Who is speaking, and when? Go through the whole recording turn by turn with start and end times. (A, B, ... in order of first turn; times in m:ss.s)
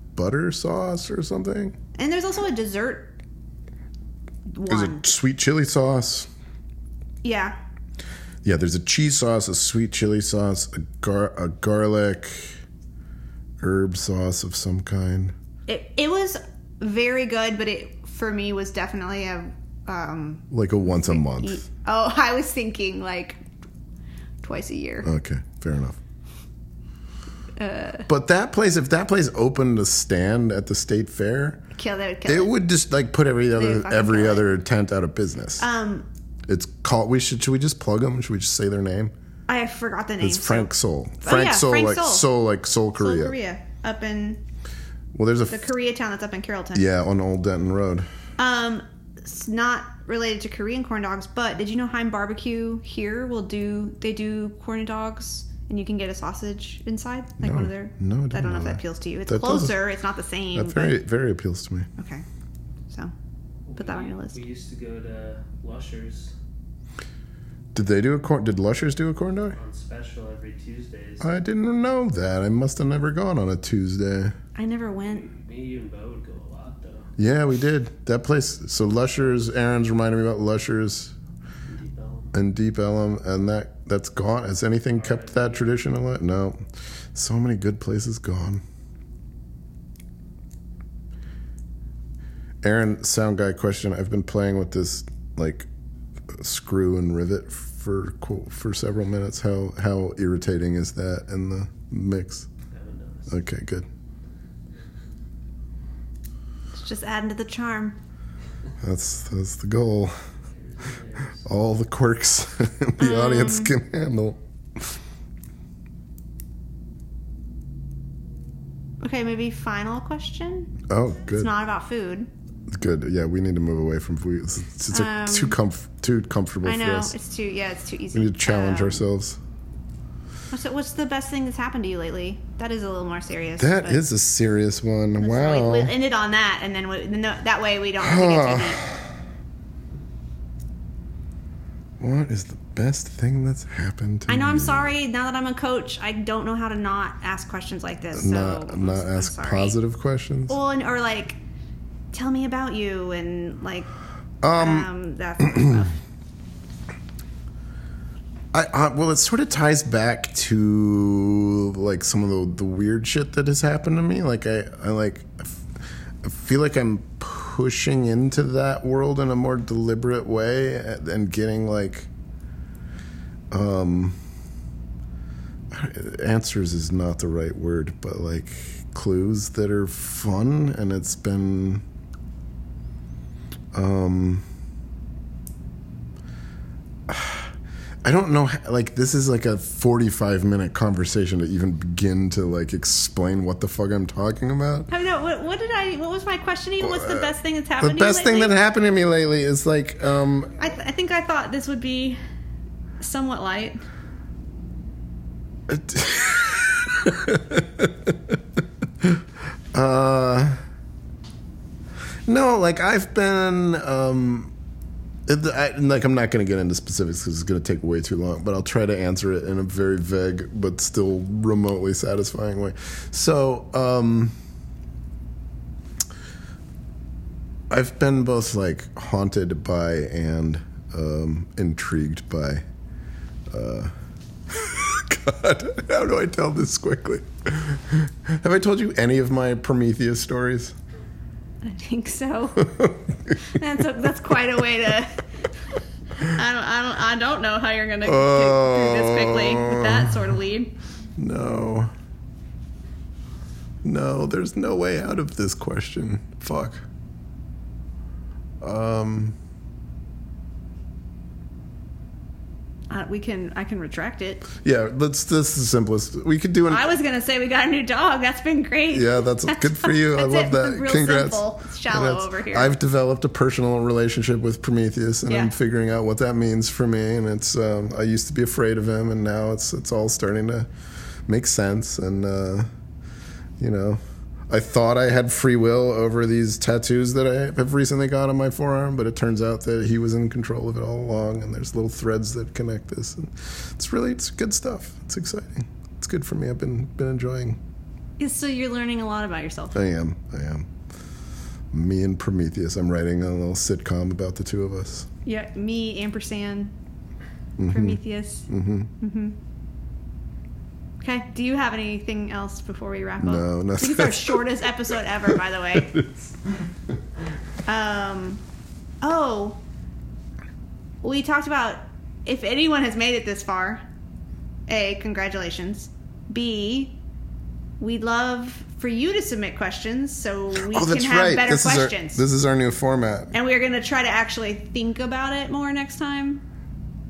0:00.1-0:01.8 A
0:02.0-0:03.2 B
0:04.5-0:05.0 B
0:04.7-0:06.3 A
0:07.2-0:07.6 B
0:08.4-0:12.6 A
0:13.6-0:15.3 A
0:15.7-0:20.4 B
0:20.5-0:21.6 A
0:21.0-0:23.4 B
0:24.4-0:25.1 B
0:25.0-0:26.0 A
0:27.6-0:28.1 B
0:28.1-0:31.6 A
0:31.8-0:32.5 B
0:32.2-0:35.6 A
0:33.5-0:34.5 B
0:35.6-0:36.0 B
0:36.5-0:39.1 A
0:39.5-0:42.3 B
0:40.2-0:43.4 A
0:42.9-0:44.4 B
0:45.1-0:45.7 A
0:45.5-0:46.8 B
0:46.7-0:48.1 A
0:48.4-1:01.0 B
0:57.4-0:59.8 A
1:00.5-1:01.9 A
1:02.0-1:02.2 B
1:03.6-1:06.3 C
1:03.8-1:04.4 B
1:07.7-1:09.6 A
1:09.5-1:11.3 C
1:11.2-1:14.4 A
1:14.6-1:15.3 B
1:15.0-1:17.1 C
1:17.2-1:21.1 A
1:21.7-1:22.3 C
1:22.3-1:26.6 A
1:25.0-1:25.7 C
1:27.1-1:28.6 A
1:32.6-1:35.7 A
1:36.3-1:42.5 A
1:42.7-1:43.4 C
1:43.3-1:43.9 A
1:46.7-1:48.0 B
1:48.8-1:50.1 A
1:50.5-1:51.4 C
1:51.4-1:55.0 A
1:53.0-1:53.7 B
1:59.0-2:00.8 B
2:00.9-2:01.5 A
2:01.3-2:02.3 B
2:02.7-2:07.1 A
2:04.9-2:05.6 B
2:06.6-2:09.0 B
2:08.1-2:09.4 A
2:10.5-2:14.0 B
2:13.6-2:15.9 A
2:15.2-2:18.8 B
2:18.0-2:19.0 A
2:22.0-2:24.9 A
2:24.3-2:29.8 B
2:28.1-2:30.6 A
2:30.5-2:31.4 B
2:32.1-2:33.9 B
2:34.4-2:34.9 A
2:34.5-2:36.0 B
2:35.5-2:35.8 A
2:38.5-2:45.6 A
2:46.2-2:52.1 A
2:53.5-2:54.2 A
2:55.7-3:01.8 A
3:03.7-3:04.4 A
3:07.1-3:07.5 A
3:08.0-3:14.9 A
3:14.9-3:18.5 B
3:16.8-3:20.5 A
3:20.6-3:22.2 B
3:23.0-3:23.8 B
3:25.7-3:28.4 A
3:29.0-3:30.6 A
3:32.2-3:34.5 A
3:35.3-3:44.4 A
3:47.7-3:52.6 A
3:53.5-3:53.9 A
3:54.5-4:00.8 A
4:01.6-4:02.7 B
4:02.6-4:03.3 A
4:03.4-4:05.2 B
4:06.2-4:10.7 B
4:08.0-4:10.2 A
4:11.2-4:11.9 A
4:13.8-4:16.8 A
4:18.6-4:19.3 A
4:22.9-4:24.5 B
4:24.6-4:26.9 A
4:26.7-4:32.7 B
4:28.9-4:40.7 A
4:35.2-4:35.5 B
4:41.3-4:42.7 A
4:43.6-4:57.6 A
4:58.2-4:59.8 B
4:59.7-5:00.7 A
5:01.7-5:05.1 A
5:05.2-5:06.7 B
5:07.6-5:08.9 A
5:07.7-5:09.4 B
5:11.0-5:16.0 B
5:13.2-5:14.4 A
5:15.3-5:16.3 A
5:17.6-5:18.4 B
5:19.0-5:19.6 B
5:21.0-5:23.8 B
5:24.7-5:27.0 B
5:27.8-5:32.2 B
5:30.6-5:33.3 A
5:33.3-5:36.4 B